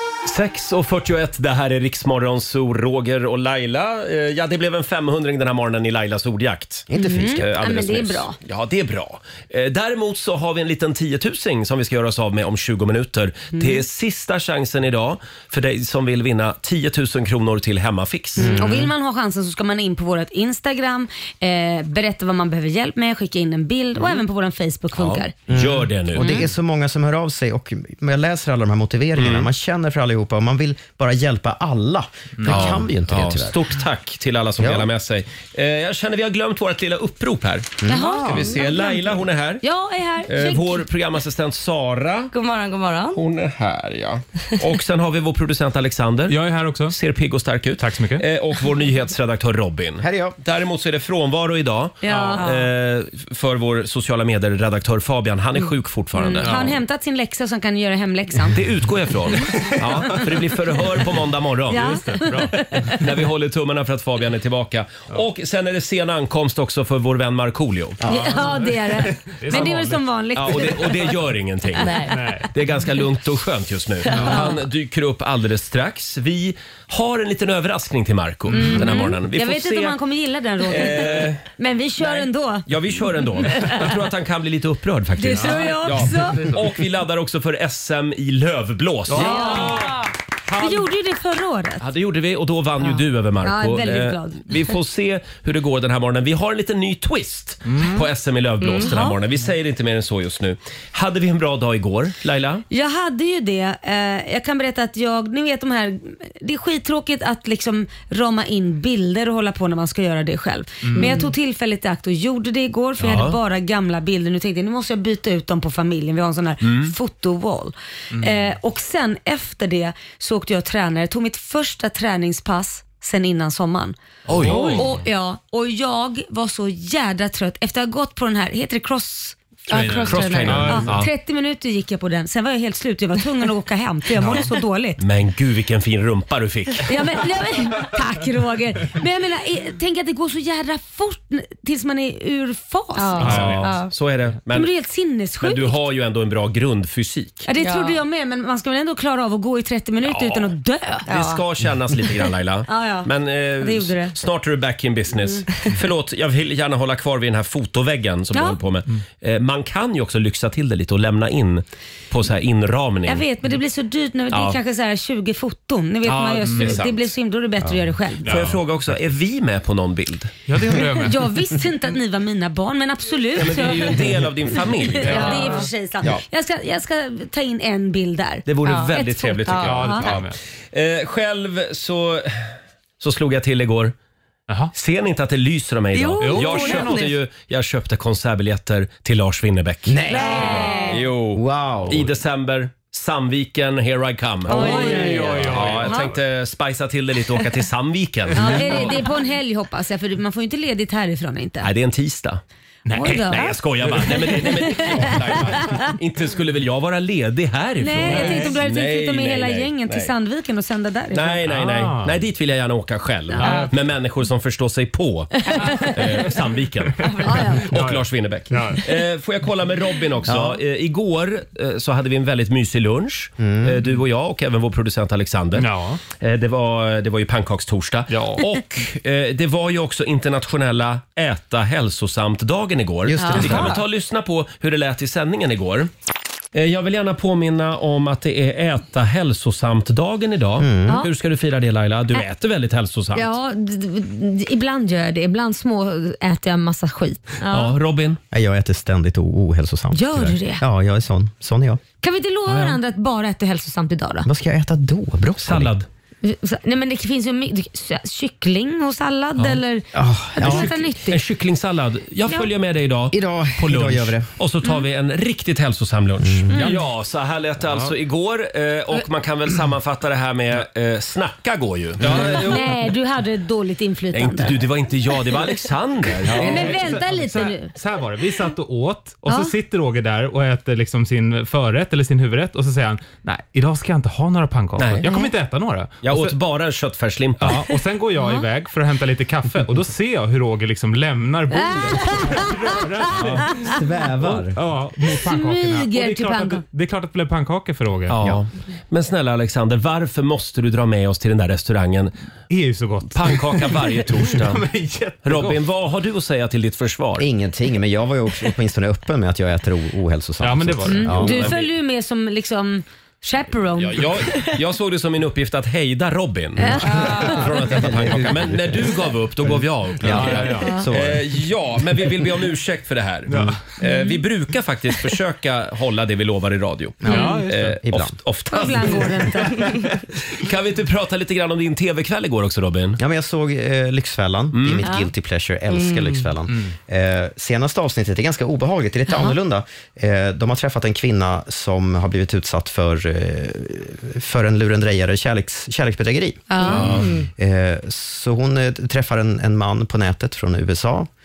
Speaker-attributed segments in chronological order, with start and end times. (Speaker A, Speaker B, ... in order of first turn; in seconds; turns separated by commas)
Speaker A: 0.2-18.6, Speaker B: 6.9-7.4, Speaker C: 6.9-8.3, Speaker C: 13.5-13.8, Speaker B: 18.4-18.9, Speaker C: 18.4-25.3, Speaker A: 24.9-26.4, Speaker B: 25.5-33.6, Speaker C: 26.1-26.4, Speaker A: 29.1-29.5, Speaker A: 32.4-39.6, Speaker B: 34.6-34.9, Speaker B: 37.8-38.5, Speaker C: 37.9-40.8, Speaker A: 40.3-42.3, Speaker D: 42.3-43.2, Speaker A: 43.1-46.4, Speaker E: 46.3-47.0, Speaker A: 46.9-56.8, Speaker E: 47.8-48.2, Speaker B: 50.0-50.4, Speaker C: 52.0-52.5, Speaker E: 52.1-52.4, Speaker C: 56.1-58.5, Speaker A: 58.5-61.9, Speaker E: 61.7-63.0, Speaker C: 61.7-63.0, Speaker A: 63.0-68.0, Speaker E: 68.0-70.0, Speaker C: 68.0-71.2, Speaker A: 70.3-72.0, Speaker D: 71.8-72.1, Speaker E: 72.1-72.5, Speaker A: 72.5-80.0, Speaker E: 74.1-74.5, Speaker C: 78.5-82.6, Speaker E: 78.5-78.9, Speaker A: 80.7-81.4, Speaker A: 82.0-89.8, Speaker C: 83.5-83.8, Speaker C: 85.2-86.5, Speaker E: 85.4-86.6, Speaker E: 89.1-90.9, Speaker C: 89.1-89.9, Speaker C: 90.6-91.8, Speaker A: 91.8-102.6, Speaker C: 93.4-94.5, Speaker E: 97.7-98.0, Speaker D: 98.6-99.0, Speaker C: 98.8-99.2, Speaker C: 102.7-135.0, Speaker E: 110.8-111.2, Speaker A: 113.0-113.4, Speaker A: 116.6-116.9, Speaker E: 118.1-118.4, Speaker E: 124.3-125.0, Speaker A: 124.3-124.8, Speaker E: 129.7-131.0, Speaker D: 129.8-130.5, Speaker A: 129.8-131.1, Speaker E: 134.2-134.5, Speaker A: 135.0-136.9, Speaker C: 136.8-143.5, Speaker D: 143.0-143.9, Speaker E: 143.1-143.9, Speaker A: 143.2-144.7, Speaker C: 144.5-145.8, Speaker A: 145.4-147.5, Speaker C: 147.4-151.1, Speaker D: 147.6-148.0, Speaker A: 150.1-150.5, Speaker D: 151.1-151.4, Speaker A: 151.1-163.2, Speaker C: 152.7-153.1, Speaker C: 153.6-154.1, Speaker C: 163.1-168.3, Speaker A: 164.3-164.6, Speaker E: 166.1-166.8, Speaker A: 166.4-167.1, Speaker E: 168.2-168.6, Speaker A: 168.2-170.3, Speaker E: 170.5-171.2, Speaker C: 170.8-180.1, Speaker A: 173.3-175.5, Speaker E: 175.0-175.7, Speaker A: 178.5-183.9, Speaker D: 178.6-178.9, Speaker E: 179.6-180.4, Speaker A: 184.7-190.0, Speaker D: 185.9-187.1, Speaker E: 186.2-187.1, Speaker B: 189.9-190.7, Speaker C: 190.1-191.0, Speaker A: 190.5-199.0, Speaker B: 191.3-192.1, Speaker E: 194.5-196.1, Speaker C: 194.5-196.1, Speaker D: 194.7-195.3, Speaker C: 198.3-201.7, Speaker E: 198.4-198.7, Speaker A: 201.6-202.4, Speaker E: 202.8-204.2, Speaker C: 202.9-205.9, Speaker A: 203.0-210.1, Speaker C: 207.8-211.4, Speaker E: 208.0-208.5, Speaker A: 211.1-217.1, Speaker E: 211.4-212.2, Speaker C: 213.3-213.7, Speaker E: 213.3-213.8, Speaker C: 215.5-215.9, Speaker E: 215.8-216.2, Speaker E: 217.0-218.8, Speaker C: 217.2-217.6, Speaker A: 217.6-235.9, Speaker B: 220.3-220.6, Speaker B: 223.4-223.8, Speaker E: 225.5-226.0, Speaker E: 228.1-228.5, Speaker B: 233.0-233.8, Speaker C: 233.2-233.7, Speaker A: 236.5-243.3, Speaker B: 240.6-241.1, Speaker C: 243.1-247.7, Speaker A: 247.5-248.2, Speaker B: 248.3-251.8, Speaker C: 249.9-250.6, Speaker C: 252.0-254.3, Speaker B: 254.2-255.7, Speaker A: 255.4-255.9, Speaker C: 256.2-261.2, Speaker B: 259.9-260.7, Speaker A: 260.4-272.6, Speaker B: 263.1-264.3, Speaker B: 266.2-266.7, Speaker C: 266.5-266.8, Speaker E: 272.0-272.4, Speaker C: 272.2-274.6, Speaker A: 274.1-276.8, Speaker E: 276.2-286.4, Speaker C: 276.4-277.7, Speaker C: 279.2-279.5, Speaker A: 284.8-285.1, Speaker A: 286.0-287.6, Speaker E: 287.4-298.4, Speaker C: 288.2-288.4, Speaker C: 291.5-293.8, Speaker B: 293.2-294.6, Speaker C: 295.2-296.6, Speaker A: 298.1-302.1, Speaker E: 302.5-305.6, Speaker A: 303.1-304.6, Speaker A: 305.2-307.2, Speaker B: 307.2-311.5, Speaker E: 310.4-311.5, Speaker C: 310.9-314.1, Speaker A: 311.2-311.7, Speaker A: 313.8-329.3, Speaker C: 316.6-317.4, Speaker E: 316.9-317.4, Speaker B: 317.7-318.9, Speaker E: 320.0-320.8, Speaker B: 320.0-321.3, Speaker C: 320.6-320.9, Speaker E: 323.3-323.6, Speaker B: 323.3-323.6, Speaker C: 323.8-324.2, Speaker B: 327.0-328.1, Speaker C: 327.1-327.4, Speaker E: 327.1-327.8, Speaker C: 328.5-329.7, Speaker E: 328.9-329.9, Speaker A: 330.4-333.0, Speaker B: 333.0-351.1, Speaker A: 334.5-334.9, Speaker C: 334.8-335.1, Speaker D: 335.7-336.2, Speaker C: 339.1-339.4, Speaker C: 346.5-346.9, Speaker A: 346.7-347.1